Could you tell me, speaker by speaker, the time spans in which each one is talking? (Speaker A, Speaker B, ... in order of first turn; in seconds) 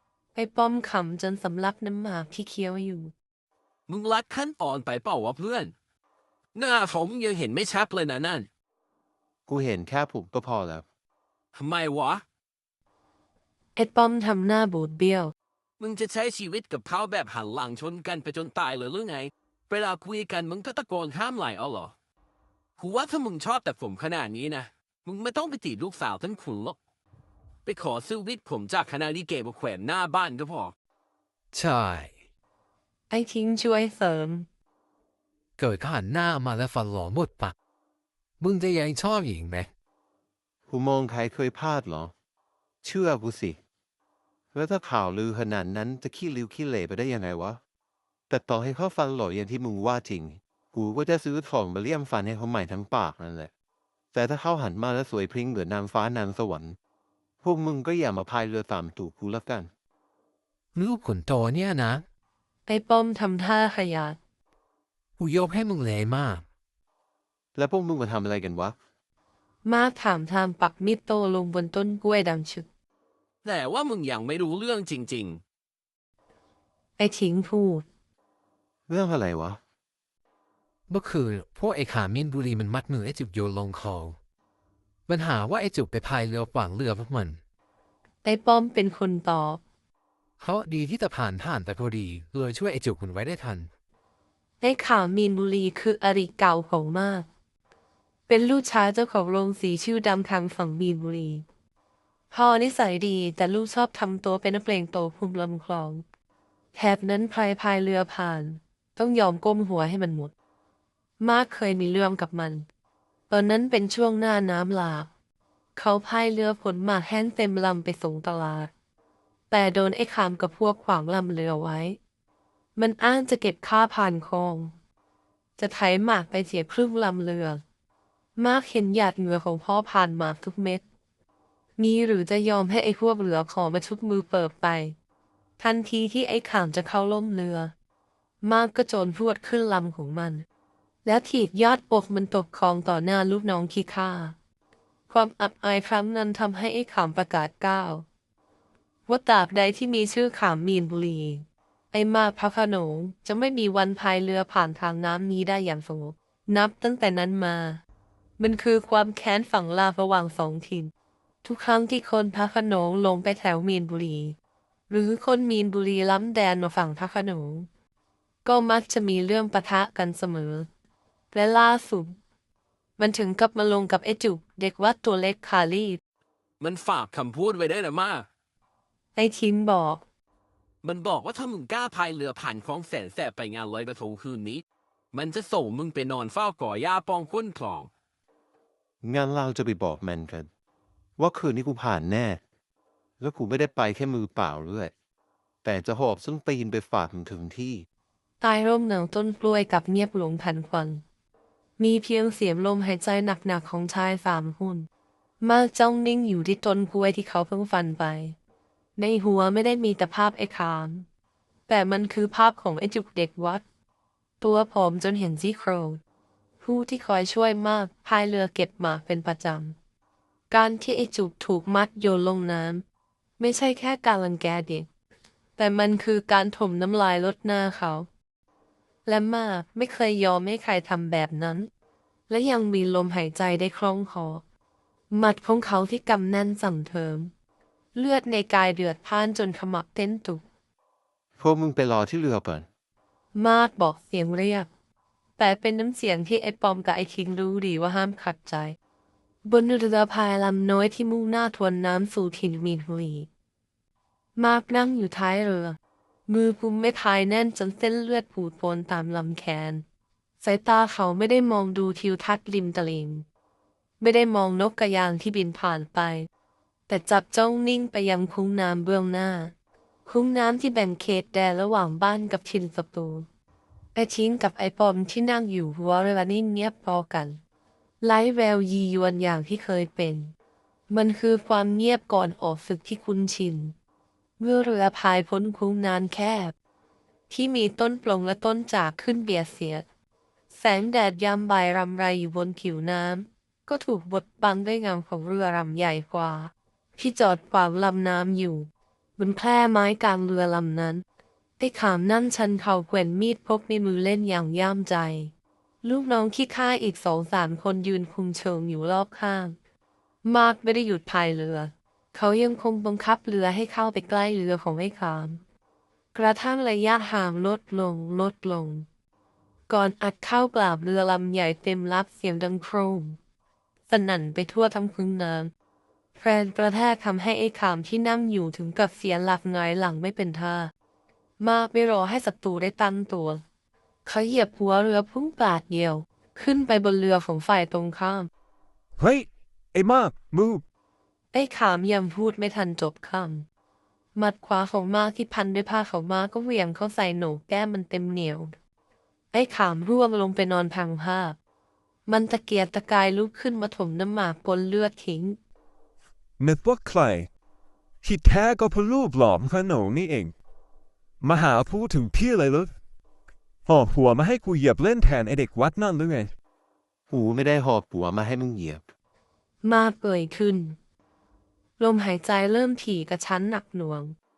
Speaker A: 0.3-3.1, 13.8-15.3, 33.1-34.5, 62.7-64.2, 69.6-72.7, 77.0-77.8, 88.2-89.6, 94.6-97.3, 98.3-101.5, 102.3-106.0, 106.8-110.3, 111.2-112.7, 113.3-115.1, 115.8-118.7, 119.5-122.0, 122.8-124.7, 125.6-127.6, 128.3-130.8, 131.8-134.9, 135.6-137.7, 138.4-140.4, 141.0-144.3, 145.1-148.0, 149.1-157.8, 158.4-160.9, 161.4-164.3, 164.9-167.7, 168.4-170.7, 171.3-172.2, 173.0-176.0, 179.2-180.0, 198.4-201.0, 201.8-204.9, 205.4-208.3, 208.9-211.1, 211.7-213.6, 214.4-216.0, 216.6-219.8, 220.5-222.8, 223.4-224.9, 225.6-228.1, 229.1-231.7, 232.3-234.4, 235.1-237.3, 237.9-240.4, 243.3-244.7, 245.4-248.8, 249.4-253.3, 254.4-259.8, 260.4-263.2, 264.0-266.3, 266.9-269.5, 270.1-273.3, 273.9-277.4, 278.0-280.3, 280.9-283.8, 284.4-286.5, 287.3-289.9, 290.5-301.0, 301.6-309.6, 310.2-315.4, 316.1-318.9, 319.7-323.2, 323.9-325.5, 326.1-330.7, 331.4-333.4, 334.1-338.3, 341.3-343.4, 344.1-348.6, 349.3-351.4, 352.1-355.4, 369.6-370.8, 371.8-374.1
Speaker B: 3.9-5.7, 6.5-8.5, 11.5-12.2, 15.8-21.9, 22.8-26.8, 27.6-30.8, 73.4-75.4, 176.6-178.3, 180.8-187.9
Speaker C: 9.5-10.8, 40.7-42.1, 42.8-43.6, 44.5-47.6, 48.3-53.5, 54.1-56.8, 57.4-59.7, 67.6-68.8, 78.9-79.6, 189.0-190.5, 191.2-192.4, 193.2-194.9, 195.6-197.8, 241.4-242.7, 367.1-368.8
Speaker D: 31.5-32.1, 35.6-37.5, 38.4-39.7, 60.8-62.0, 65.2-66.4, 80.9-84.2, 85.1-87.4, 90.4-93.7
Speaker E: 339.0-340.6, 356.4-357.3, 358.0-360.3, 361.2-362.7, 363.7-366.3